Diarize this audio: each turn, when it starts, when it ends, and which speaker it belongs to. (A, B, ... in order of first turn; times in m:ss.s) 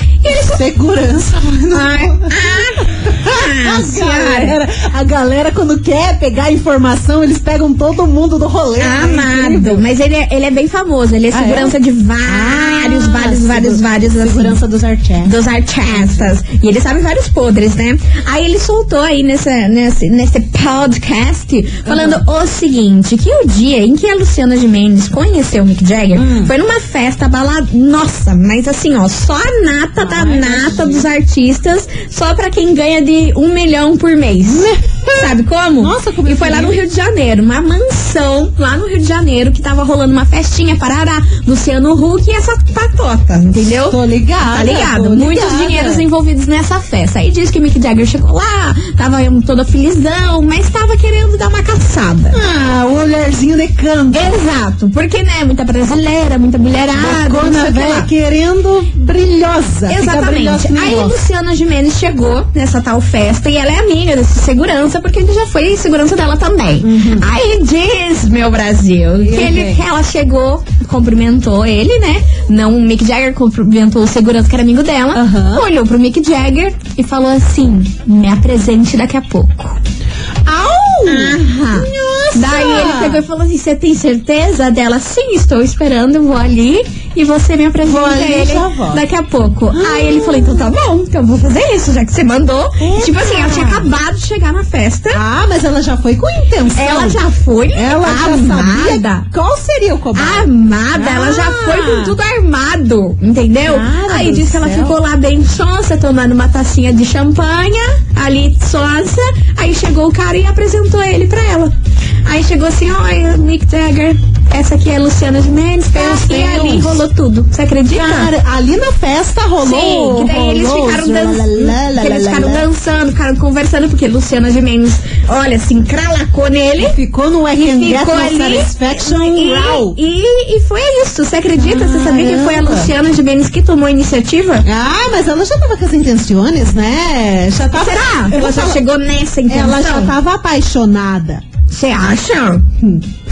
0:00.2-0:00.6 A
0:00.3-0:09.8 B
0:01.7-0:04.6 A
0:08.8-0:14.6 A
0:11.3-0:15.3 B
0:15.2-0:44.0 A
0:15.9-0:16.3 B
0:21.9-0:22.2 B
0:26.2-0:26.5 B
0:30.0-0:31.1 B
0:34.4-0:36.8 B
0:43.7-0:46.0 B
0:44.5-0:52.4 A
0:52.3-0:54.4 B
0:54.1-0:58.1 A
0:56.9-1:01.2 B
0:59.9-1:19.8 A
1:06.8-1:07.3 B
1:09.2-1:09.8 B
1:15.2-1:15.6 B
1:20.5-1:23.2 B
1:21.1-1:35.2 A
1:27.8-1:29.0 B
1:29.7-1:30.7 B
1:32.8-1:33.9 B
1:35.1-1:37.2 B
1:36.8-1:39.3 A
1:37.8-1:42.2 B
1:40.2-1:51.7 A
1:43.6-1:45.0 B
1:52.3-1:58.3 A
1:55.9-1:57.0 B
1:57.9-2:02.7 B
1:59.6-2:07.0 A
2:06.8-2:10.0 B
2:07.6-2:14.7 A
2:11.6-2:12.9 B
2:14.7-2:18.8 B
2:17.8-2:20.1 A
2:19.5-2:21.4 B
2:21.7-2:22.6 A